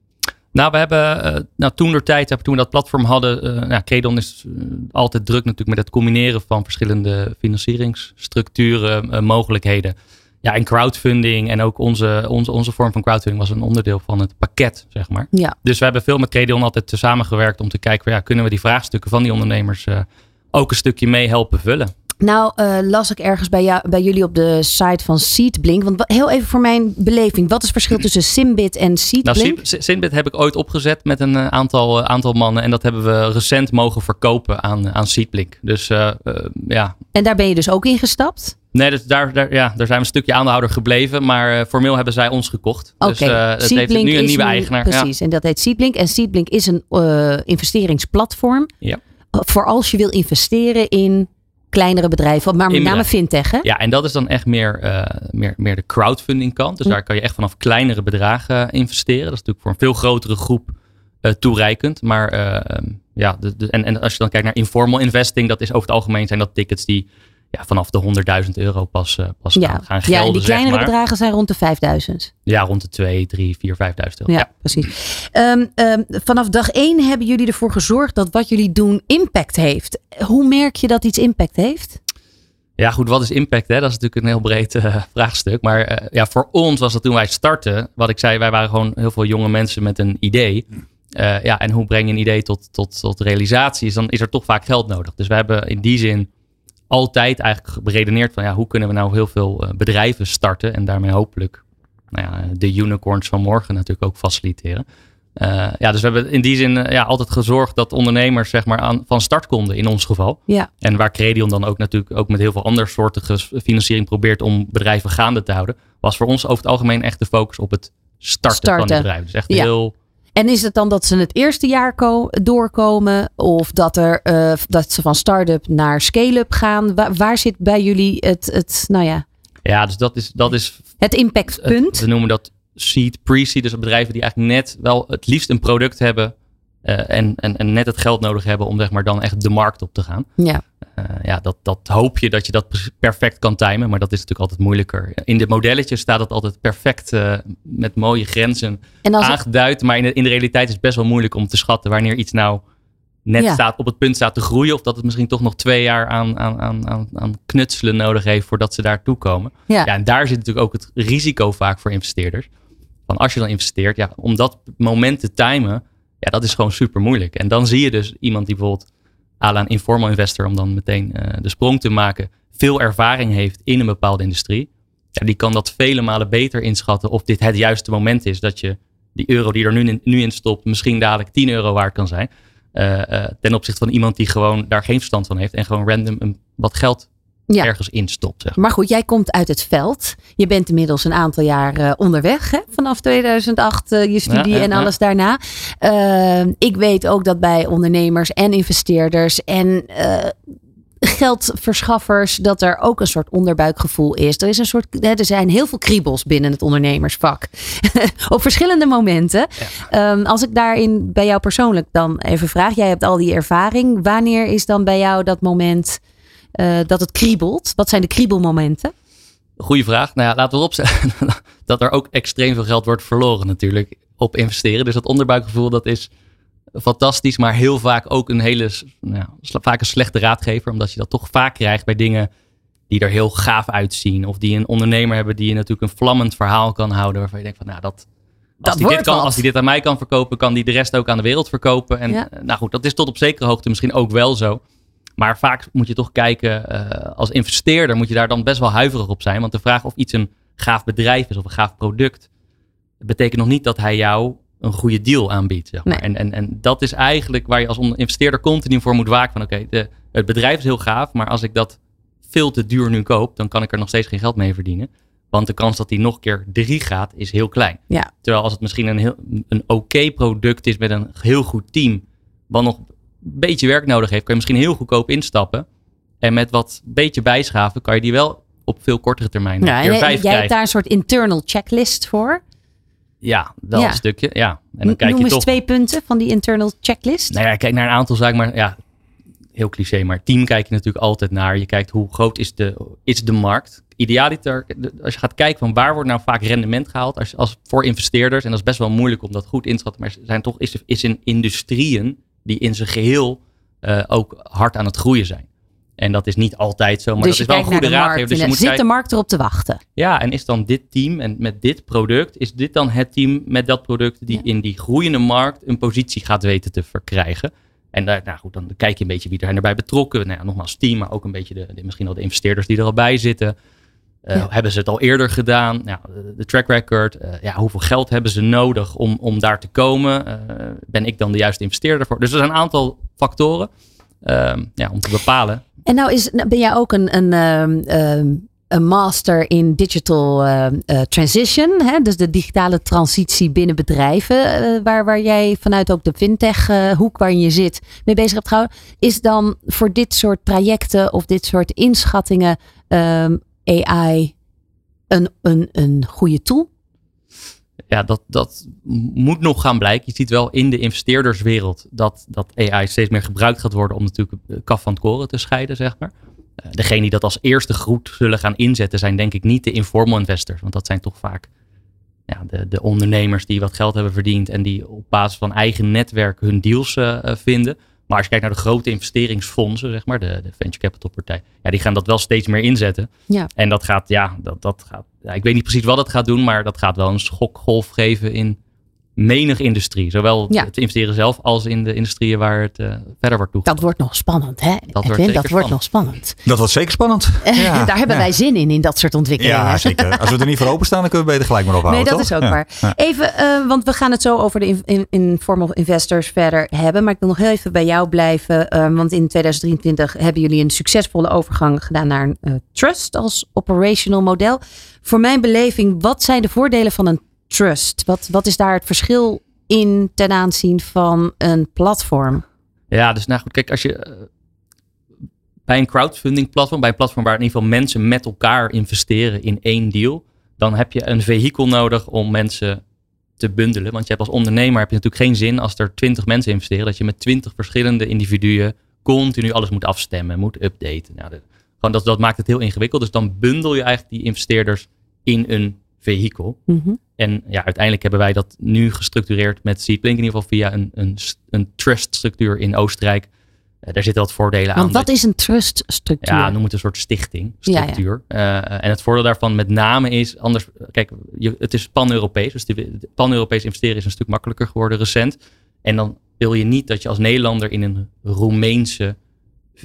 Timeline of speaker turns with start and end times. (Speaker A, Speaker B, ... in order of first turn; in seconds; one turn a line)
Speaker A: 0.5-21.9
Speaker B: 22.2-29.6
Speaker A: 29.2-37.0
Speaker B: 37.1-38.5
Speaker A: 38.7-45.1
Speaker B: 43.0-48.7
Speaker B: 49.3-53.7
Speaker A: 52.7-53.1
Speaker A: 53.6-70.9
Speaker B: 69.6-72.3
Speaker A: 72.5-74.5
Speaker B: 74.3-82.0
Speaker A: 82.8-96.3
Speaker A: 96.9-104.8
Speaker A: 105.4-119.9
Speaker B: 118.5-119.7
Speaker B: 120.4-129.2
Speaker A: 129.7-131.0
Speaker B: 131.0-132.0
Speaker A: 131.6-136.3
Speaker A: 136.8-140.3
Speaker A: 141.0-152.6
Speaker B: 149.1-149.4
Speaker A: 153.3-162.5
Speaker A: 163.1-168.9
Speaker A: 169.4-187.1
Speaker A: 187.6-188.6
Speaker B: 188.6-200.4
Speaker A: 194.3-194.9
Speaker B: 201.0-216.0
Speaker B: 216.6-218.9
Speaker A: 219.6-226.1
Speaker A: 226.8-232.3
Speaker A: 232.9-238.1
Speaker A: 238.6-244.6
Speaker B: 238.6-239.4
Speaker A: 245.2-252.2
Speaker A: 253.0-261.8
Speaker A: 262.3-275.6
Speaker A: 276.2-280.5
Speaker B: 279.6-282.4
Speaker A: 283.2-285.5
Speaker B: 283.8-284.0
Speaker B: 284.9-287.3
Speaker A: 287.3-288.8
Speaker A: 289.6-305.5
Speaker A: 306.0-308.8
Speaker B: 307.2-309.8
Speaker A: 310.0-323.6
Speaker A: 324.3-333.7
Speaker A: 334.2-335.6
Speaker B: 335.9-354.3
Speaker B: 355.1-356.7
Speaker A: 357.9-371.5
Speaker A: 372.3-388.6
Speaker A: 389.2-393.8
Speaker B: 393.6-396.4
Speaker A: 395.0-395.8
Speaker C: 396.5-398.3
Speaker B: 397.5-400.4
Speaker C: 399.4-402.9
Speaker B: 401.9-422.4
Speaker A: 422.9-424.3
Speaker A: 425.7-432.8
Speaker A: 433.4-446.6
Speaker B: 446.7-447.0
Speaker A: 447.2-453.3
Speaker A: 453.9-455.1
Speaker B: 454.8-456.6
Speaker A: 456.2-469.2
Speaker B: 457.7-458.0